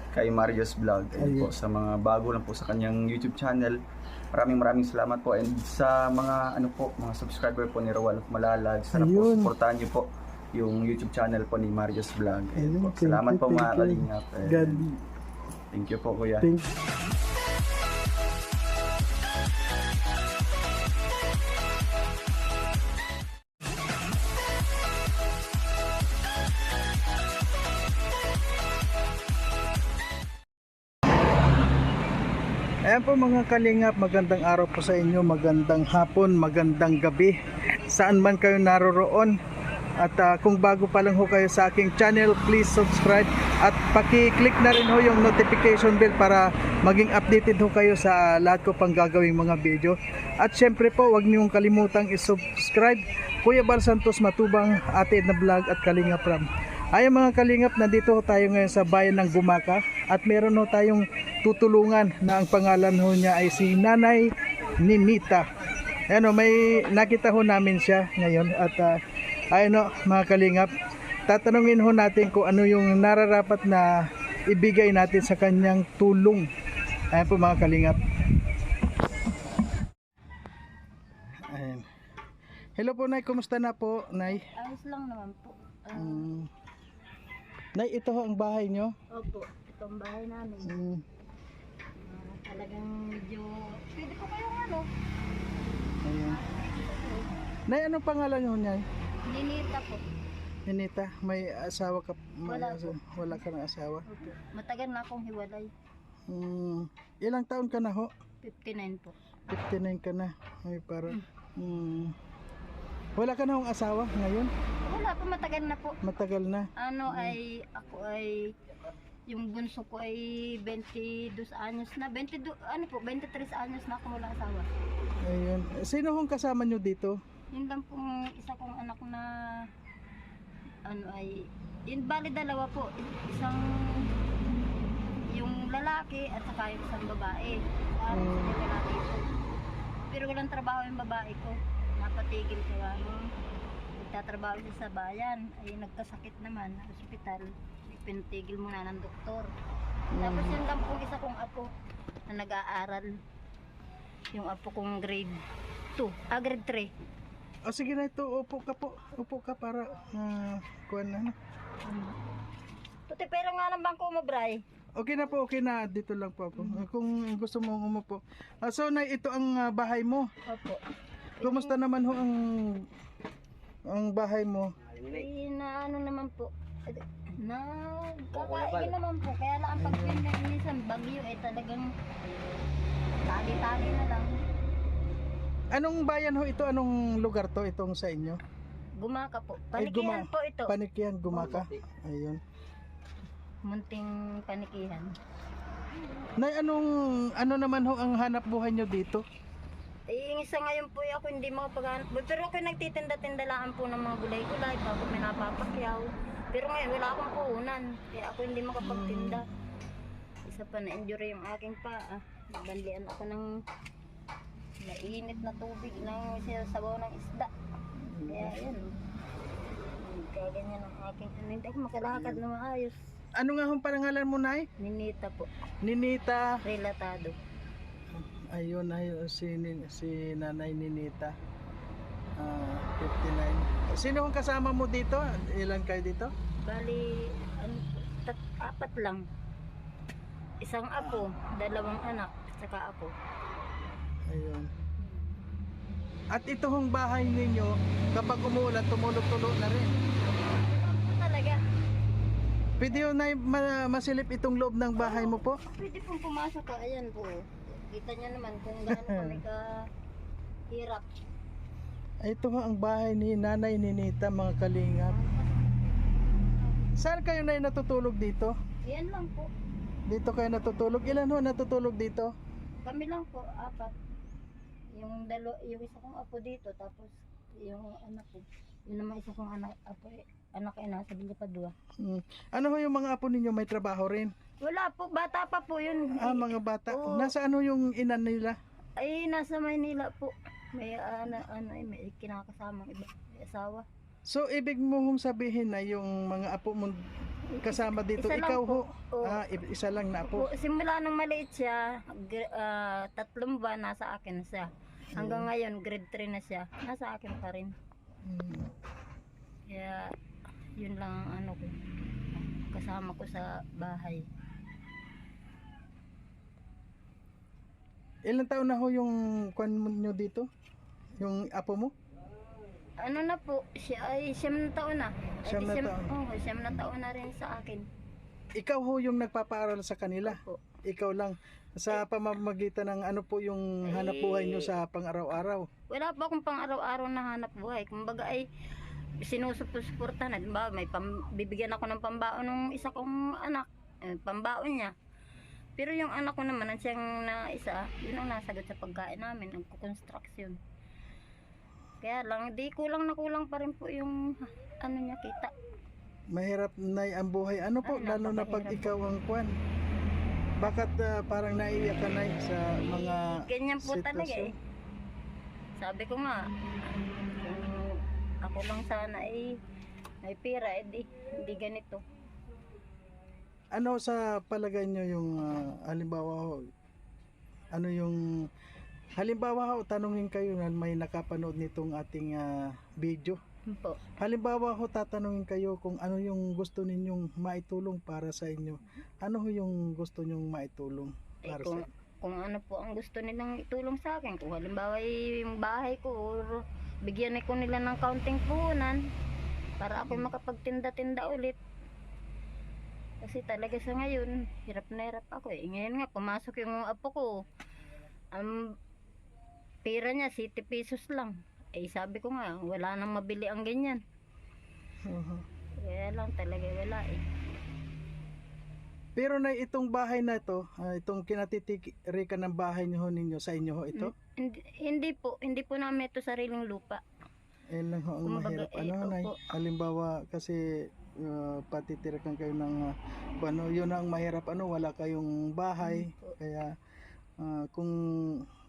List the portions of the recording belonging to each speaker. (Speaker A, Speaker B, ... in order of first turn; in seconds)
Speaker A: 0.1-3.8, 4.3-14.9, 15.7-16.5
Speaker B: 1.1-1.5, 8.9-9.5, 12.6-15.0, 16.4-16.7, 32.9-37.3, 37.9-39.4, 40.0-65.4, 66.1-69.0, 69.5-70.7, 71.3-76.5, 77.1-78.0, 81.5-81.8, 82.8-84.5, 85.9-86.5, 87.8-88.9, 90.6-91.0, 96.0-96.4, 97.7-98.8, 100.7-104.0, 106.3-108.1, 109.5-112.1, 113.2-114.5, 116.0-117.4, 125.2-127.2, 138.1-138.5, 150.1-150.6, 157.6-161.3, 164.9-170.3, 171.4-172.8, 173.9-174.7, 179.8-180.2, 185.7-188.4, 189.7-192.4, 196.4-199.2, 208.8-209.4, 218.0-218.6, 222.1-222.4, 223.3-224.7, 225.8-226.6, 228.1-231.3, 232.4-236.3, 240.9-241.2, 244.3-244.7, 246.3-249.9, 252.8-255.6, 258.9-259.4, 262.2-265.2, 267.0-268.5, 270.1-272.3, 282.0-284.3, 286.1-288.6, 294.2-297.0, 297.6-300.5, 305.1-305.5, 308.2-308.7, 318.2-320.5, 321.2-321.9, 325.4-326.1, 328.6-335.6, 356.3-359.5, 360.6-364.5, 373.7-376.6, 377.7-378.5, 379.1-383.4, 384.2-391.9, 415.1-415.4, 419.1-424.1, 427.7-436.7, 437.4-438.4
Speaker C: 84.3-86.3, 89.1-90.8, 92.0-94.9, 96.2-97.3, 99.2-100.0, 102.5-103.4, 104.1-105.7, 108.4-109.1, 114.8-116.0, 116.8-118.5, 119.3-124.7, 127.5-129.7, 130.8-134.1, 135.3-139.3, 140.1-143.2, 143.9-149.5, 150.2-151.7, 152.3-153.1, 154.3-155.4, 155.9-156.9, 161.8-162.2, 163.1-164.6, 166.6-166.8, 170.4-170.8, 171.4-171.8, 175.0-181.9, 183.3-184.3, 189.0-190.7, 193.6-195.1, 200.1-209.4, 210.5-213.5, 214.8-217.5, 218.3-218.9, 220.0-223.0, 224.8-225.5, 226.6-227.3, 236.6-239.2, 240.6-243.1, 245.0-245.3, 250.4-251.6, 254.9-259.9, 260.7-261.1, 265.1-265.7, 268.8-269.5, 272.8-273.9, 274.9-281.7, 284.6-287.3, 289.0-293.9, 297.5-299.4, 300.2-307.7, 309.7-310.1, 310.8-311.7, 312.6-314.2, 323.0-327.9, 330.3-330.6, 333.9-334.7, 335.9-338.4, 339.2-344.9, 345.8-350.6, 352.0-355.5, 357.8-359.0, 362.9-364.5, 365.8-366.4, 367.3-369.6, 370.2-372.0, 383.7-384.0, 391.4-399.0, 399.8-401.6, 403.2-407.4, 408.3-408.7, 409.8-414.0, 415.8-417.2, 423.9-427.0, 428.2-429.4, 435.8-436.3